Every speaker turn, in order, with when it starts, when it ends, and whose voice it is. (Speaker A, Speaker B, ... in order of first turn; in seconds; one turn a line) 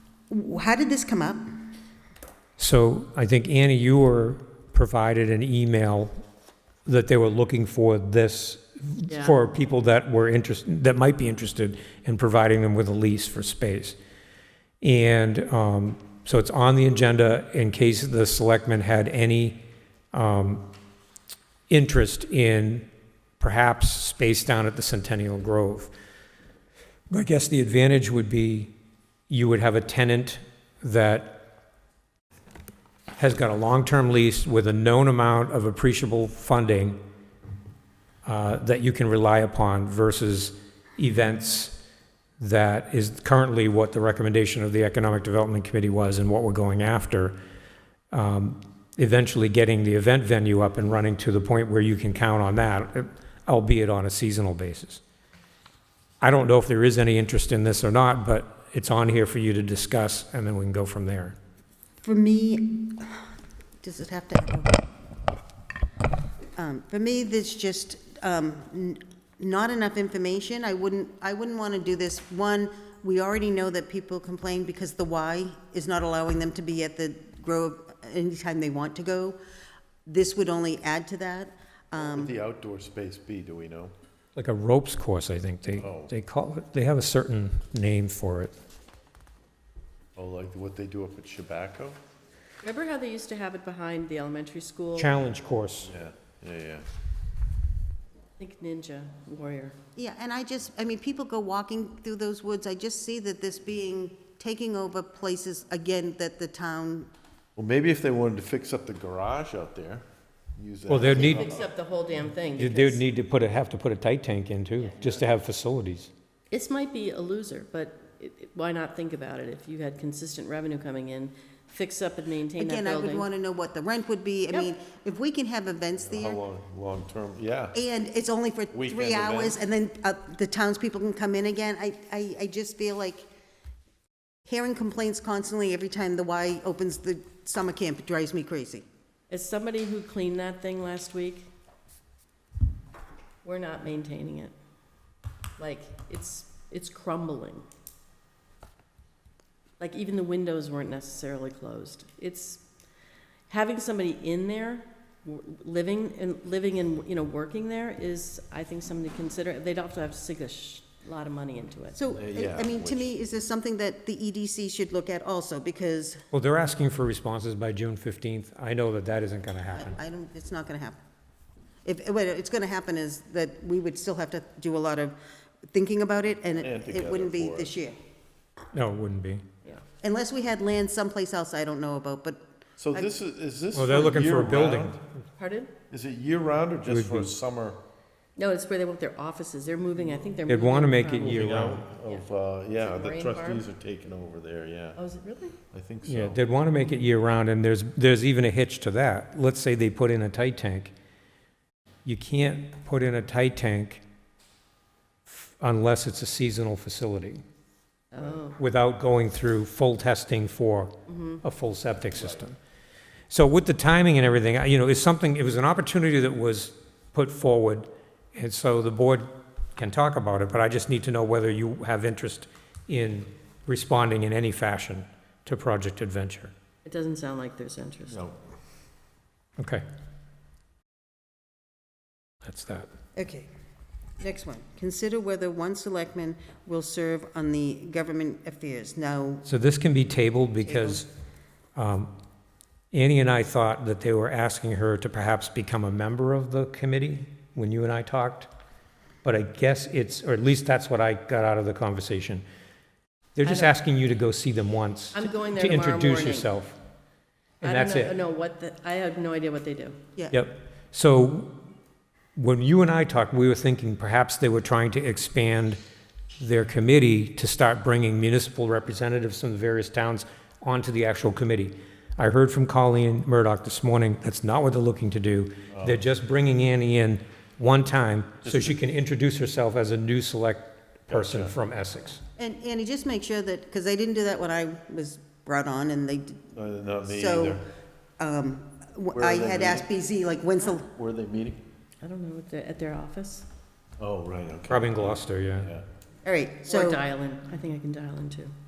Speaker A: 0.3-1.4
Speaker B: 2.6-6.1
Speaker B: 6.8-14.0
Speaker C: 9.1-9.3
Speaker B: 14.8-19.6
Speaker B: 20.1-20.6
Speaker B: 21.7-22.9
Speaker B: 23.4-25.9
Speaker B: 27.1-28.7
Speaker B: 29.3-31.4
Speaker B: 33.1-37.0
Speaker B: 38.2-41.8
Speaker B: 42.4-47.4
Speaker B: 48.1-55.0
Speaker B: 56.2-61.3
Speaker A: 62.0-63.2
Speaker A: 63.8-64.8
Speaker A: 66.5-79.4
Speaker A: 80.0-82.3
Speaker D: 82.0-83.9
Speaker B: 84.3-88.5
Speaker D: 85.8-86.1
Speaker D: 90.2-92.0
Speaker C: 92.6-95.1
Speaker B: 95.0-95.9
Speaker D: 95.9-96.8
Speaker C: 98.4-99.8
Speaker A: 100.0-107.1
Speaker D: 107.6-110.0
Speaker D: 110.5-111.7
Speaker B: 110.9-111.6
Speaker C: 110.9-113.0
Speaker B: 112.6-116.1
Speaker C: 114.9-115.2
Speaker C: 116.5-123.3
Speaker A: 122.6-126.4
Speaker D: 126.0-127.8
Speaker A: 127.7-133.3
Speaker D: 128.7-129.6
Speaker A: 134.4-138.8
Speaker C: 139.3-141.5
Speaker C: 143.4-144.5
Speaker C: 145.6-147.7
Speaker C: 149.8-152.6
Speaker C: 153.5-162.0
Speaker A: 161.9-166.2
Speaker D: 162.1-163.1
Speaker B: 166.3-170.0
Speaker A: 169.7-171.0
Speaker A: 171.8-175.2
Speaker A: 175.7-177.9
Speaker D: 176.6-177.7
Speaker B: 178.7-179.4
Speaker A: 180.0-183.1
Speaker D: 182.8-185.0
Speaker B: 183.7-185.0
Speaker C: 185.4-185.7
Speaker D: 185.9-187.8
Speaker B: 186.9-187.3
Speaker C: 188.3-193.7
Speaker B: 190.5-191.8
Speaker D: 191.2-195.0
Speaker C: 194.9-195.6
Speaker D: 195.7-196.4
Speaker B: 196.0-200.9
Speaker B: 202.0-204.0
Speaker B: 205.3-207.4
Speaker C: 208.1-208.6
Speaker B: 208.6-212.6
Speaker C: 211.1-211.4
Speaker B: 213.3-226.5
Speaker C: 226.8-228.2
Speaker D: 228.1-228.3
Speaker B: 229.6-229.8
Speaker B: 232.4-232.9
Speaker A: 233.2-233.5
Speaker A: 234.2-239.4
Speaker B: 239.4-241.1
Speaker A: 240.6-241.0
Speaker B: 241.8-242.1
Speaker B: 242.9-248.5
Speaker B: 249.2-252.4
Speaker B: 253.3-256.8
Speaker C: 253.4-253.7
Speaker C: 255.1-256.5
Speaker C: 257.6-260.0
Speaker B: 257.6-258.1
Speaker B: 260.3-261.5
Speaker B: 262.4-265.8
Speaker B: 266.4-282.2
Speaker D: 278.4-278.7
Speaker D: 281.1-281.5
Speaker A: 282.4-286.5
Speaker D: 286.5-287.6
Speaker A: 287.1-287.6
Speaker A: 288.2-290.9
Speaker D: 289.1-289.9
Speaker D: 290.8-291.6
Speaker C: 292.0-293.5
Speaker D: 294.0-295.8
Speaker B: 294.7-295.7
Speaker A: 296.2-297.0
Speaker C: 296.6-298.5